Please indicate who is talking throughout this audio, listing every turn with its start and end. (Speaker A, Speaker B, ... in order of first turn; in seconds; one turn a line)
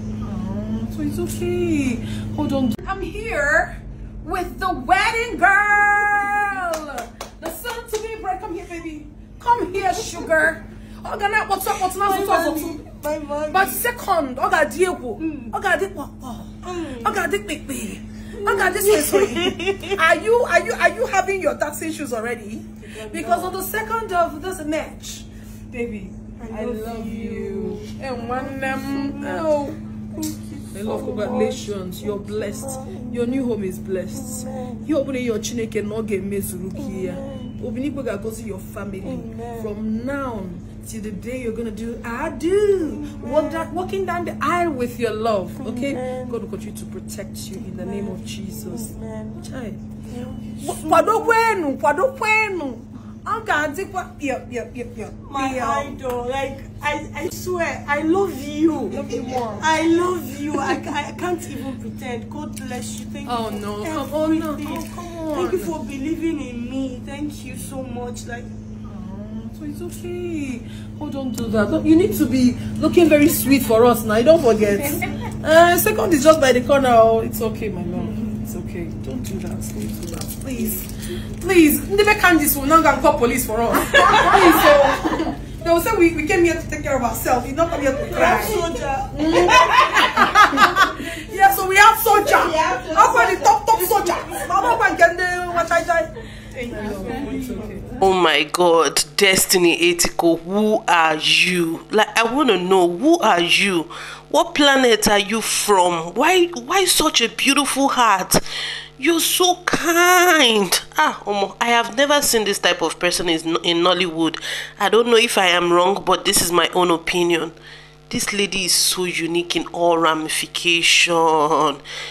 Speaker A: 0.2-12.8
Speaker B: 10.0-10.3
Speaker B: 11.7-13.8
Speaker A: 13.5-29.8
Speaker B: 15.2-15.5
Speaker B: 16.6-17.3
Speaker B: 18.4-20.0
Speaker B: 22.9-23.6
Speaker B: 26.4-29.5
Speaker B: 30.1-33.4
Speaker A: 30.7-48.9
Speaker B: 34.1-34.9
Speaker B: 36.8-37.6
Speaker B: 39.0-39.7
Speaker B: 42.9-43.7
Speaker B: 45.6-46.4
Speaker B: 47.6-49.5
Speaker A: 49.4-49.8
Speaker B: 50.0-51.3
Speaker A: 50.6-56.0
Speaker B: 55.3-68.5
Speaker A: 58.9-59.7
Speaker A: 63.3-65.7
Speaker A: 68.9-96.1
Speaker B: 88.1-90.8
Speaker B: 92.1-94.8
Speaker B: 96.5-97.9
Speaker A: 96.7-97.9
Speaker C: 98.0-108.4
Speaker C: 109.0-117.5
Speaker C: 118.1-121.8